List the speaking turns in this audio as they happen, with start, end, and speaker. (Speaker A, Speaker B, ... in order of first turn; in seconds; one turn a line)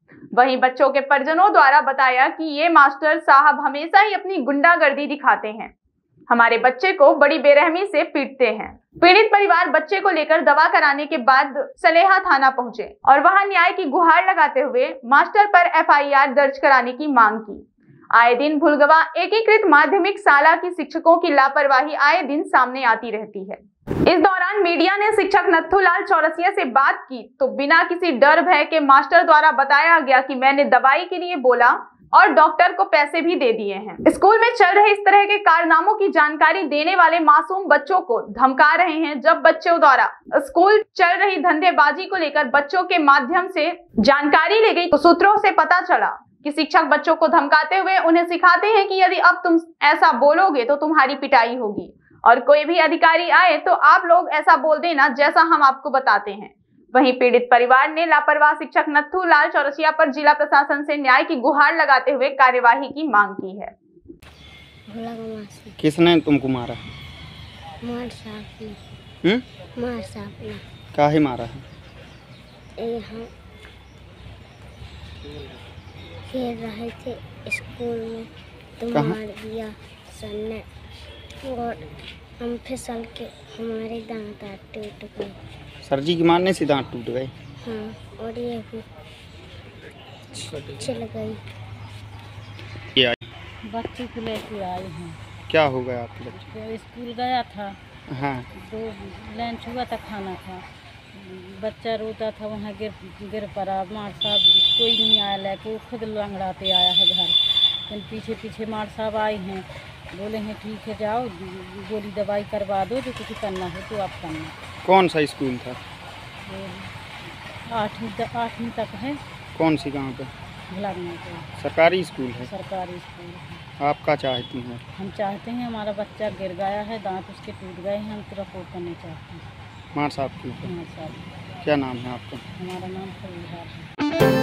Speaker A: 0.3-5.7
Speaker A: 6.3-63.7
Speaker B: 64.9-65.7
Speaker C: 65.8-66.8
Speaker B: 67.8-68.8
Speaker B: 69.7-70.6
Speaker C: 70.9-71.6
Speaker B: 72.8-73.3
Speaker B: 76.3-80.7
Speaker B: 81.4-81.8
Speaker B: 82.4-85.4
Speaker C: 85.8-87.3
Speaker B: 87.6-88.8
Speaker C: 90.3-90.7
Speaker B: 90.7-91.4
Speaker D: 93.6-95.2
Speaker C: 95.5-96.4
Speaker D: 96.3-97.8
Speaker C: 98.1-98.5
Speaker D: 98.5-114.6
Speaker C: 114.8-115.8
Speaker D: 116.4-116.9
Speaker D: 117.7-119.2
Speaker C: 119.5-120.3
Speaker D: 120.7-121.5
Speaker C: 121.6-122.5
Speaker D: 122.4-123.6
Speaker C: 123.8-124.8
Speaker D: 124.9-129.4
Speaker C: 129.9-130.7
Speaker D: 130.6-131.2
Speaker C: 131.6-132.4
Speaker D: 132.5-133.8